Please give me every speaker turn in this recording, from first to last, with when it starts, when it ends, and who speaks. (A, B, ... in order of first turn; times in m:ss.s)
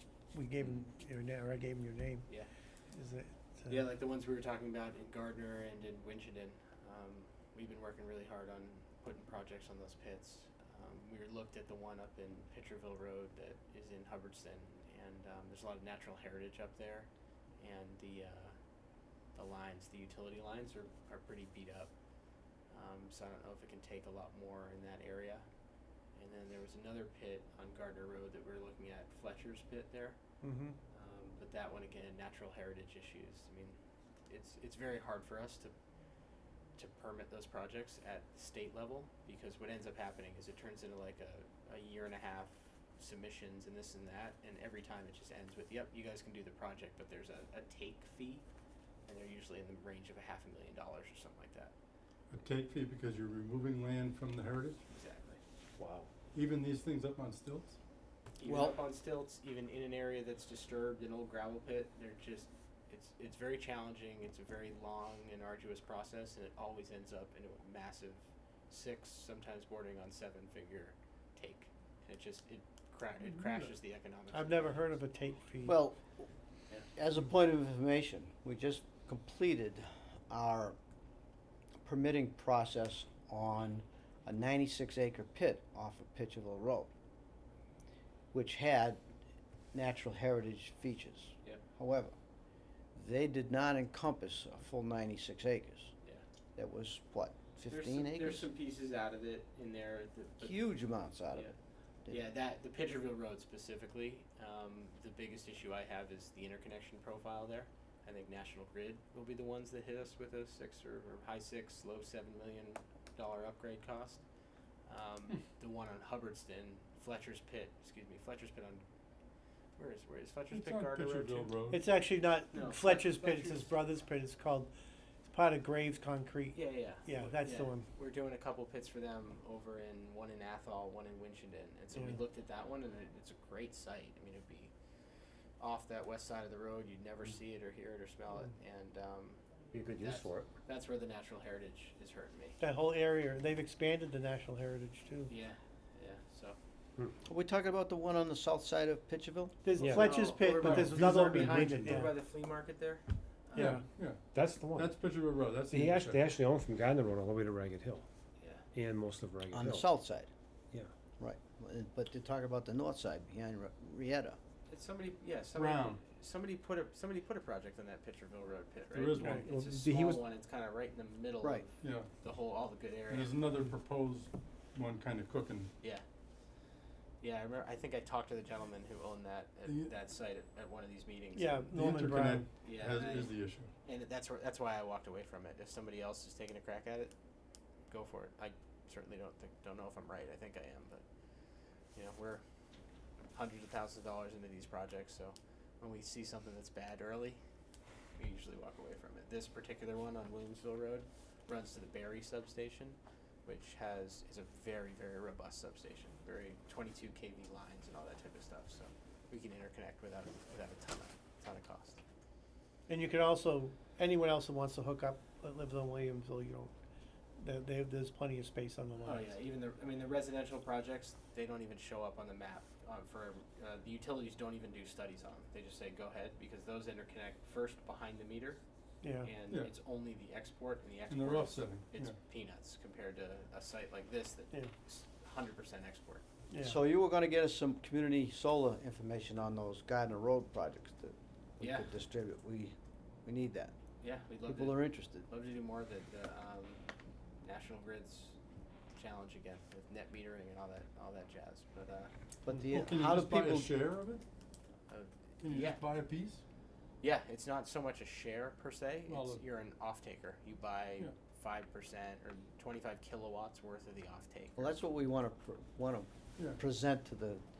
0:00.3-0:02.3 A
0:02.9-0:03.8 A
0:03.7-0:18.6 B
0:19.4-0:21.9 B
0:22.7-0:25.5 B
0:26.2-0:30.2 B
0:30.4-0:30.8 A
0:30.9-0:33.8 B
0:34.3-0:35.7 B
0:36.8-0:48.4 B
0:49.1-0:51.7 B
0:52.3-0:54.8 C
0:54.9-0:55.4 B
0:56.3-0:57.8 C
0:58.4-1:15.0 B
0:58.4-0:58.8 D
1:14.3-1:15.8 A
1:15.7-1:16.3 D
1:16.9-1:20.8 D
1:21.8-1:26.9 D
1:28.3-1:29.0 D
1:29.7-1:32.2 D
1:33.0-1:35.9 D
1:36.6-1:38.4 D
1:37.7-1:40.6 B
1:40.4-1:41.5 D
1:42.1-1:54.2 B
1:54.9-1:58.8 B
1:59.8-2:01.6 B
2:00.5-2:01.9 C
2:01.7-2:04.7 A
2:02.5-2:03.8 B
2:05.2-2:07.8 A
2:06.5-2:14.7 B
2:11.9-2:12.2 A
2:15.6-2:19.4 B
2:19.7-2:20.5 E
2:20.0-2:22.6 B
2:22.6-2:25.3 A
2:25.3-2:26.6 B
2:27.2-2:29.6 D
2:29.6-2:32.1 A
2:29.8-2:33.8 B
2:30.6-2:32.1 C
2:33.5-2:33.8 A
2:33.6-2:36.3 C
2:34.4-2:34.9 E
2:35.7-2:38.1 E
2:38.4-2:38.6 B
2:38.7-2:39.8 E
2:39.5-2:40.3 D
2:41.2-2:44.4 D
2:44.7-2:53.3 B
2:45.5-2:46.0 C
2:48.9-2:49.5 C
2:49.2-2:49.4 A
2:49.5-2:50.2 E
2:51.8-2:52.1 C
2:53.1-2:55.7 C
2:57.2-3:01.7 B
2:59.6-2:59.9 C
3:01.4-3:02.5 A
3:01.7-3:03.7 C
3:02.6-3:07.2 B
3:07.9-3:11.0 B
3:12.0-3:12.4 B
3:13.3-3:17.4 B
3:18.2-3:32.0 B
3:32.9-3:36.7 A
3:37.4-3:39.3 A
3:39.0-3:48.6 B
3:49.0-3:49.3 A
3:49.2-3:56.2 B
3:51.1-3:52.2 C
3:56.5-3:56.8 A
3:56.6-4:03.7 D
4:01.6-4:01.9 B
4:04.0-4:06.8 B
4:04.5-4:05.3 D
4:07.4-4:08.4 B
4:09.0-4:12.1 B
4:12.5-4:13.7 D
4:12.7-4:14.2 C
4:14.9-4:15.8 B
4:15.4-4:16.4 C
4:17.0-4:24.8 B
4:19.1-4:19.5 C
4:24.6-4:27.4 D